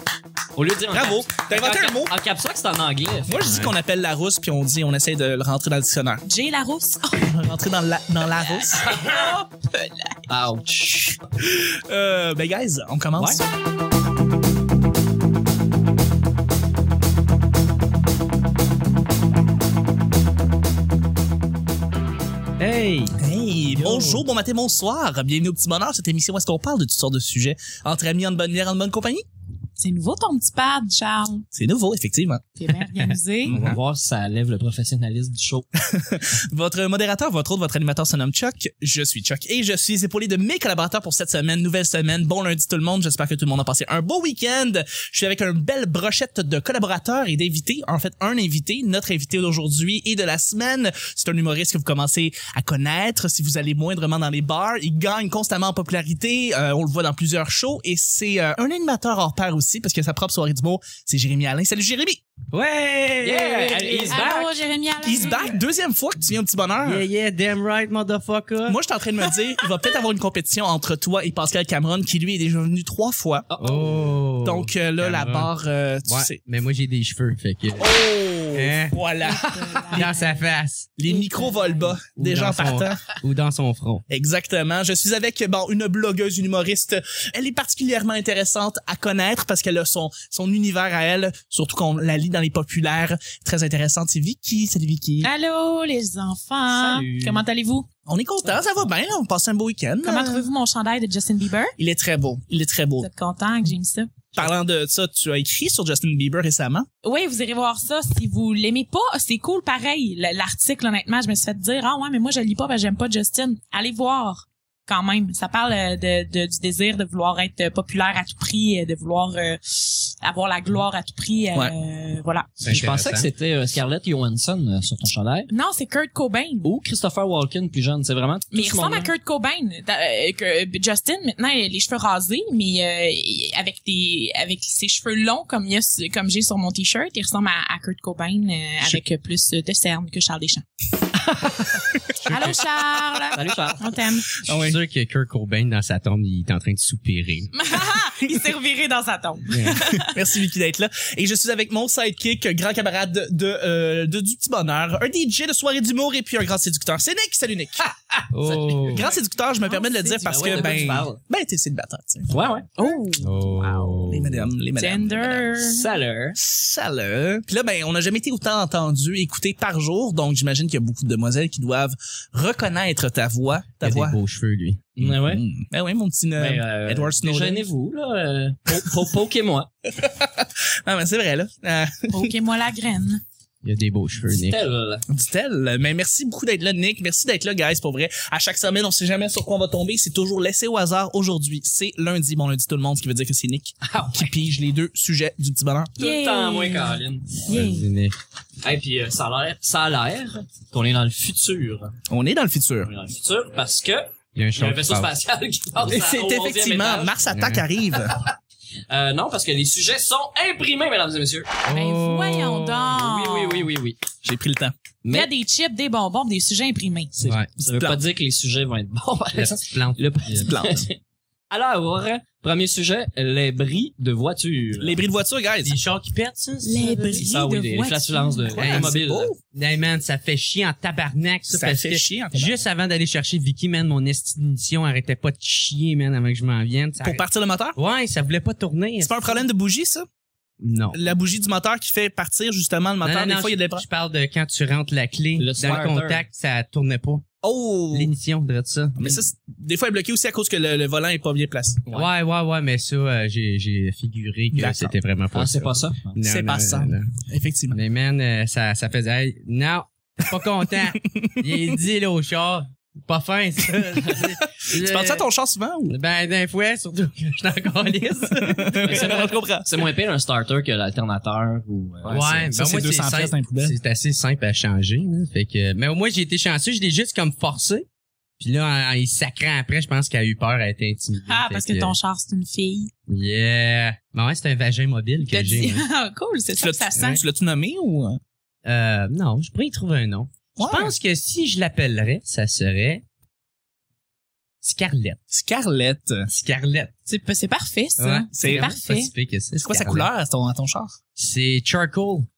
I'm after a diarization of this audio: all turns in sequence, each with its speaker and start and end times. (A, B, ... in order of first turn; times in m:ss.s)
0:00.5-0:03.3 A
0:00.9-0:02.2 B
0:03.3-0:06.2 B
0:03.4-0:03.7 C
0:06.2-0:07.3 D
0:07.2-0:08.8 B
0:08.4-0:10.1 D
0:08.9-0:09.3 A
0:10.3-0:11.2 A
0:11.4-0:13.4 B
0:13.2-0:13.4 A
0:22.6-0:23.2 C
0:23.2-0:29.2 B
0:23.7-0:24.2 C
0:29.8-0:31.4 D
0:31.5-0:32.4 B
0:32.6-0:33.5 D
0:33.5-0:33.8 B
0:33.5-0:35.7 A
0:35.8-1:02.2 B
1:02.5-1:04.2 C
1:03.2-1:04.5 A
1:03.7-1:05.6 D
1:05.0-1:07.0 B
1:06.8-1:08.8 C
1:08.6-1:13.5 B
1:13.5-1:14.1 A
1:13.6-1:15.5 C
1:14.4-1:16.4 B
1:16.1-1:17.9 C
1:17.8-1:20.1 B
1:18.5-1:19.0 C
1:19.2-1:20.4 D
1:19.9-1:20.9 C
1:21.0-1:23.0 B
1:21.0-1:21.9 D
1:22.2-1:24.0 C
1:24.1-1:35.3 B
1:35.2-1:37.9 D
1:36.7-1:37.4 A
1:38.0-1:40.5 B
1:40.0-1:41.7 D
1:41.8-1:43.1 B
1:43.0-1:44.2 D
1:44.3-1:46.9 B
1:47.0-2:02.5 D
2:02.6-2:03.3 C
2:02.6-2:05.5 A
2:05.5-2:06.7 D
2:06.6-2:09.1 A
2:08.5-2:20.6 D
2:22.2-2:24.4 D
2:23.3-2:23.9 A
2:24.4-2:24.8 B
2:24.5-2:27.5 C
2:27.5-2:30.2 D
2:29.5-2:29.8 C
2:29.9-2:37.8 B
2:38.1-2:39.0 A
2:38.3-2:39.0 C
2:38.9-2:42.3 B
2:39.0-2:41.0 D
2:40.2-2:41.2 A
2:42.3-2:42.7 A
2:42.8-2:44.0 D
2:43.2-2:44.5 C
2:44.0-2:45.5 B
2:44.8-2:45.8 D
2:45.6-2:46.4 A
2:46.4-2:54.2 B
2:53.8-2:55.0 C
2:55.0-2:55.4 A
2:55.0-2:57.6 B
2:56.4-2:59.7 A
2:59.9-3:02.3 B
3:02.1-3:03.2 D
3:03.6-3:04.6 C
3:04.3-3:05.0 A
3:05.1-3:16.0 B
3:13.8-3:14.3 A
3:16.0-3:17.5 A
3:16.0-3:17.9 D
3:17.5-3:18.1 C
3:18.6-3:21.9 A
3:22.1-3:22.9 B
3:22.8-3:27.2 A
3:24.3-3:25.1 C
3:25.8-3:28.2 B
3:27.3-3:27.6 C
3:28.9-3:31.5 A
3:31.7-3:32.9 C
3:31.7-3:33.7 D
3:32.9-3:34.0 A
3:34.2-3:34.7 B
3:35.0-3:35.3 A
3:35.1-3:37.1 D
3:37.2-3:41.0 A
3:37.6-3:38.0 B
3:39.3-3:40.5 C
3:40.4-3:40.9 B
3:41.5-3:45.0 A
3:44.8-3:45.8 B
3:45.6-3:47.2 C
3:46.6-3:48.7 D
3:47.1-3:49.3 A
3:48.5-3:49.4 B
3:48.6-3:57.2 C
3:51.5-3:52.6 B
3:57.0-3:57.8 B
3:57.8-3:59.4 C
3:59.0-4:00.0 B
4:00.6-4:01.0 C
4:00.9-4:03.8 B
4:03.0-4:07.2 C
4:05.4-4:06.2 A
4:07.4-4:08.1 B
4:07.9-4:09.2 C
4:09.0-4:12.0 B
4:11.9-4:17.1 C
4:14.5-4:14.9 B
4:15.3-4:16.2 A
4:16.2-4:17.8 B
4:17.7-4:25.2 C
4:21.1-4:21.7 B
4:24.1-4:25.9 B
4:25.9-4:29.1 C
4:28.3-4:29.8 B
4:28.8-4:32.5 A
4:32.0-4:33.8 B
4:32.1-4:37.8 C
4:38.4-4:42.0 C
4:41.3-4:42.9 D
4:43.1-4:45.8 C
4:45.2-4:47.2 D
4:46.6-4:48.2 B
4:48.6-4:53.0 C
4:50.6-4:50.9 B
4:54.6-4:55.2 C
4:55.3-4:56.3 B
4:56.3-4:56.9 C
4:57.1-4:59.1 D
4:58.0-5:00.1 C
4:58.3-4:58.7 B
4:59.6-5:01.0 B
5:01.2-5:02.3 C